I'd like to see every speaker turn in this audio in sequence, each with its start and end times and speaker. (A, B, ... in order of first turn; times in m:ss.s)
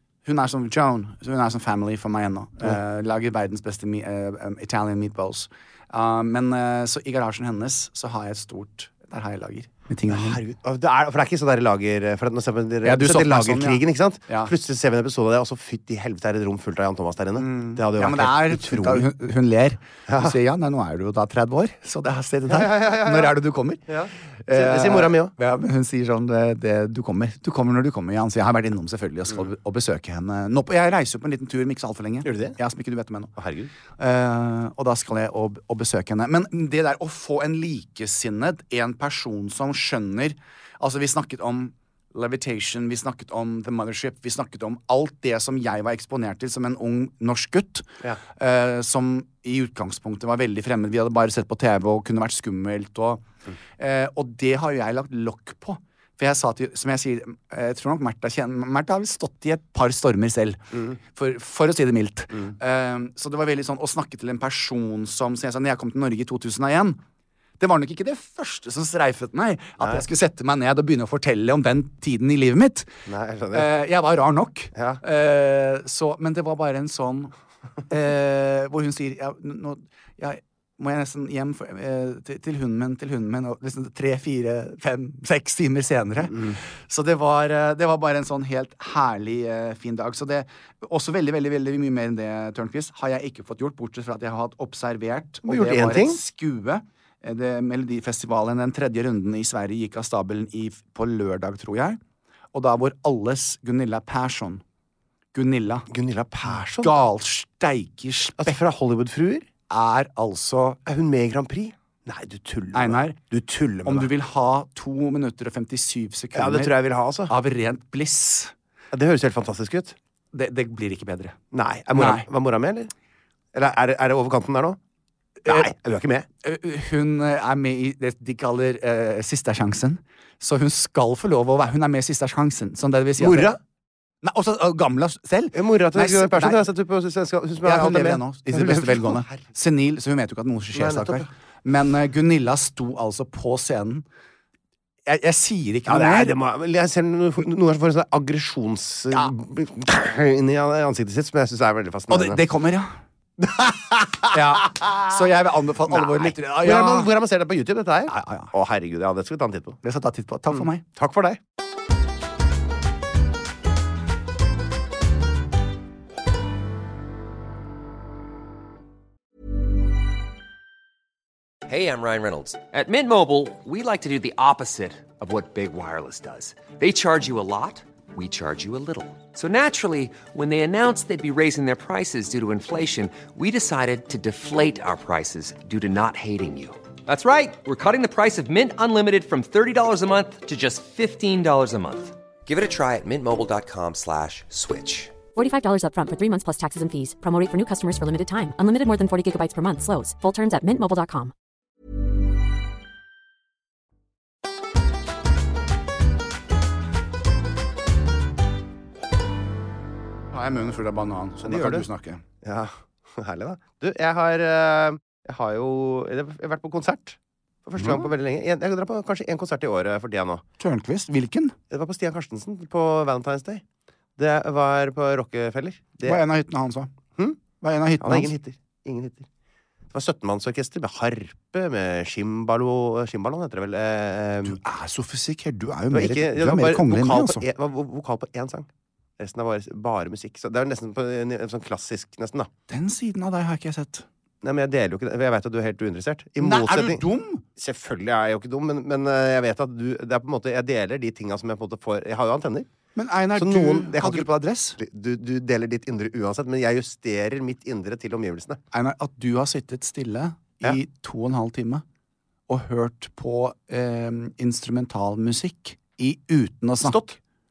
0:00.2-0:10.4 A
0:10.1-0:19.1 B
0:12.8-0:14.5 A
0:17.4-0:23.8 A
0:20.1-0:20.4 B
0:22.5-0:23.4 B
0:23.9-0:25.3 B
0:24.4-0:33.3 A
0:32.2-0:32.6 B
0:33.4-0:33.7 B
0:34.0-0:53.2 A
0:53.8-1:07.0 A
1:07.6-1:13.0 A
1:09.8-1:10.0 B
1:13.1-1:13.7 B
1:13.5-1:17.3 A
1:14.7-1:15.0 B
1:17.9-1:42.0 A
1:26.3-1:26.6 B
1:35.4-1:36.2 B
1:42.5-1:44.6 A
1:45.3-1:45.9 A
1:45.9-1:46.9 B
1:46.5-1:48.6 A
1:48.4-1:49.5 B
1:49.7-1:50.8 A
1:50.9-1:54.1 B
1:52.7-1:53.2 A
1:53.8-1:56.8 A
1:56.3-1:57.3 B
1:57.3-1:58.5 A
1:58.9-2:00.0 B
2:00.3-2:01.4 A
2:01.5-2:02.9 B
2:02.0-2:02.3 A
2:03.5-2:04.8 B
2:05.4-2:05.7 A
2:05.5-2:06.3 B
2:06.4-2:13.6 A
2:13.2-2:13.6 B
2:14.2-2:16.6 A
2:15.5-2:19.4 B
2:17.6-2:24.0 A
2:20.7-2:21.3 B
2:25.1-2:26.4 A
2:25.9-2:32.4 B
2:32.1-2:33.0 A
2:33.4-2:35.2 B
2:34.3-2:37.1 A
2:35.8-2:39.8 B
2:38.1-2:38.5 A
2:39.8-2:40.8 A
2:40.5-2:41.4 B
2:51.7-3:15.1 C
3:15.4-3:21.3 D
3:30.3-3:32.2 A
3:31.4-3:31.9 B
3:32.4-3:40.4 B
3:37.8-3:38.1 A
3:40.6-3:41.6 A
3:41.7-3:43.6 B
3:44.2-3:46.2 B
3:46.0-3:46.9 A
3:47.6-3:48.3 A
3:48.0-3:49.3 B
3:49.9-3:54.6 B
3:54.4-3:57.4 A
3:55.9-3:58.7 B
3:59.2-4:02.5 B
4:02.7-4:04.1 A
4:04.4-4:07.0 B
4:06.4-4:07.4 A
4:07.6-4:12.7 B
4:13.0-4:14.8 A
4:13.3-4:18.6 B
4:18.7-4:21.8 A
4:22.5-4:27.0 A
4:26.8-4:27.2 B